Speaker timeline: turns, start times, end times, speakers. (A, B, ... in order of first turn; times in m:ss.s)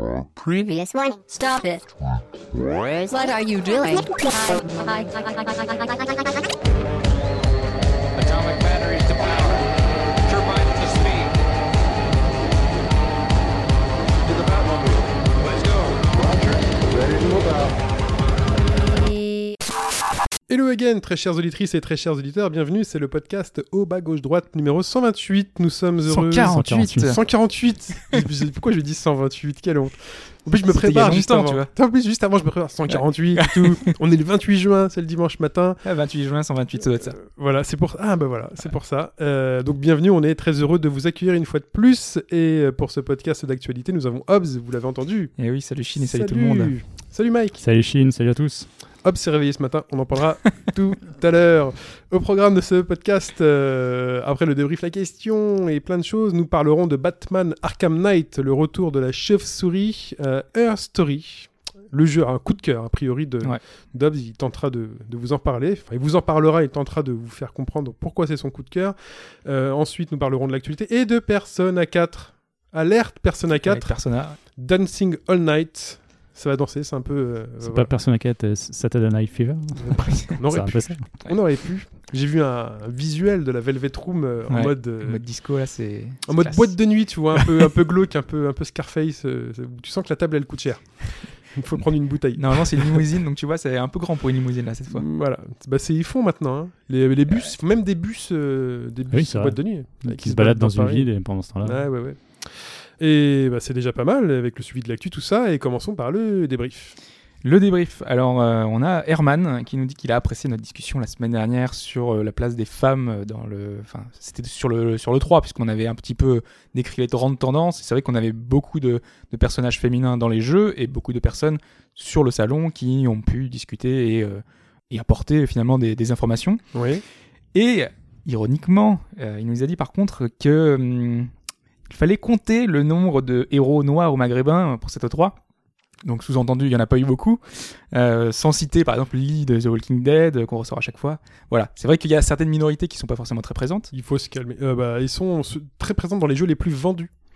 0:00.4-0:01.8 A
0:02.8-0:06.5 A
0:08.1-0:11.4 B
0:14.2-0:17.7 B
0:18.9-0:19.6 A
0:20.5-0:35.8 C
0:26.1-0:27.2 D
0:26.3-0:27.1 E
0:30.7-0:31.7 D
0:32.9-0:33.9 D
0:35.8-0:37.2 D
0:37.0-0:45.3 C
0:45.4-0:46.8 D
0:46.0-0:47.6 C
0:47.6-0:48.7 E
0:49.0-1:13.9 C
1:13.6-1:14.4 D
1:14.6-1:17.9 C
1:17.6-1:21.0 E
1:19.8-1:25.2 C
1:24.5-1:26.8 D
1:26.3-1:33.0 C
1:27.3-1:27.6 D
1:32.4-1:35.0 D
1:34.9-1:41.1 C
1:39.1-1:41.8 E
1:41.6-1:46.9 C
1:47.4-2:06.6 D
2:06.7-2:07.0 C
2:07.5-2:11.3 D
2:11.9-2:15.4 D
2:16.0-2:23.9 D
2:23.9-2:27.1 C